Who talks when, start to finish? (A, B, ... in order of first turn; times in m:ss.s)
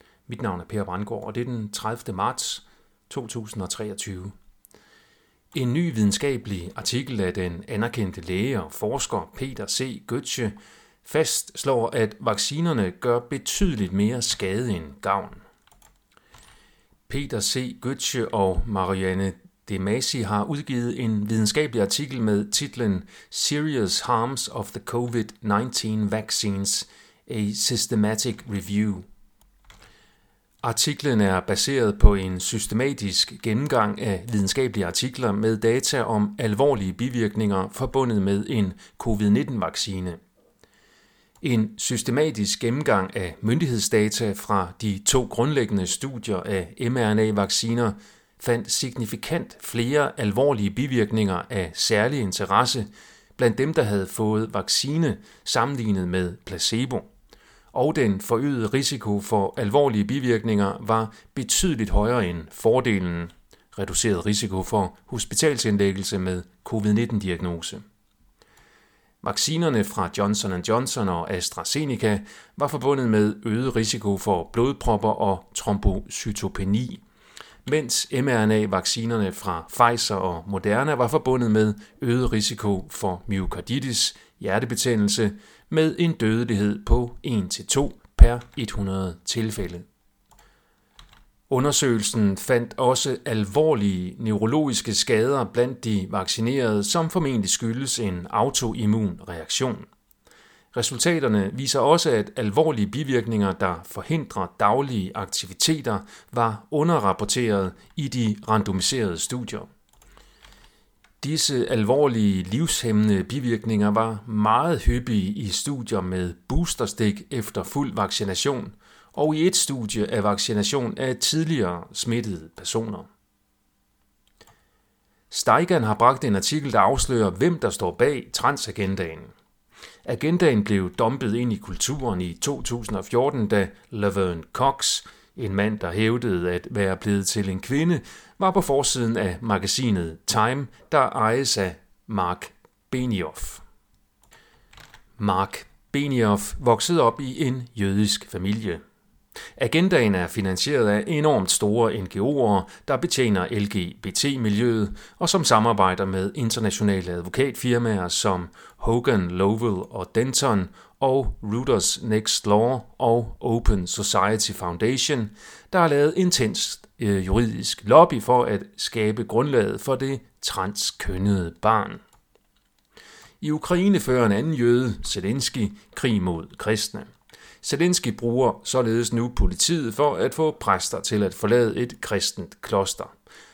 0:00.3-0:04.3 A
0:05.5-0:15.4 A
0:17.1-0:29.0 A
0:30.6-0:40.2 A
0:41.4-0:57.1 A
0:57.7-1:07.8 A
1:09.2-1:17.0 A
1:17.6-1:29.8 A
1:31.5-1:39.9 A
1:40.7-1:49.7 A
1:51.2-2:03.1 A
2:05.3-2:09.3 A
2:10.0-2:23.6 A
2:25.2-2:28.8 A
2:29.6-2:52.0 A
2:53.4-2:57.1 A
2:57.6-3:03.1 A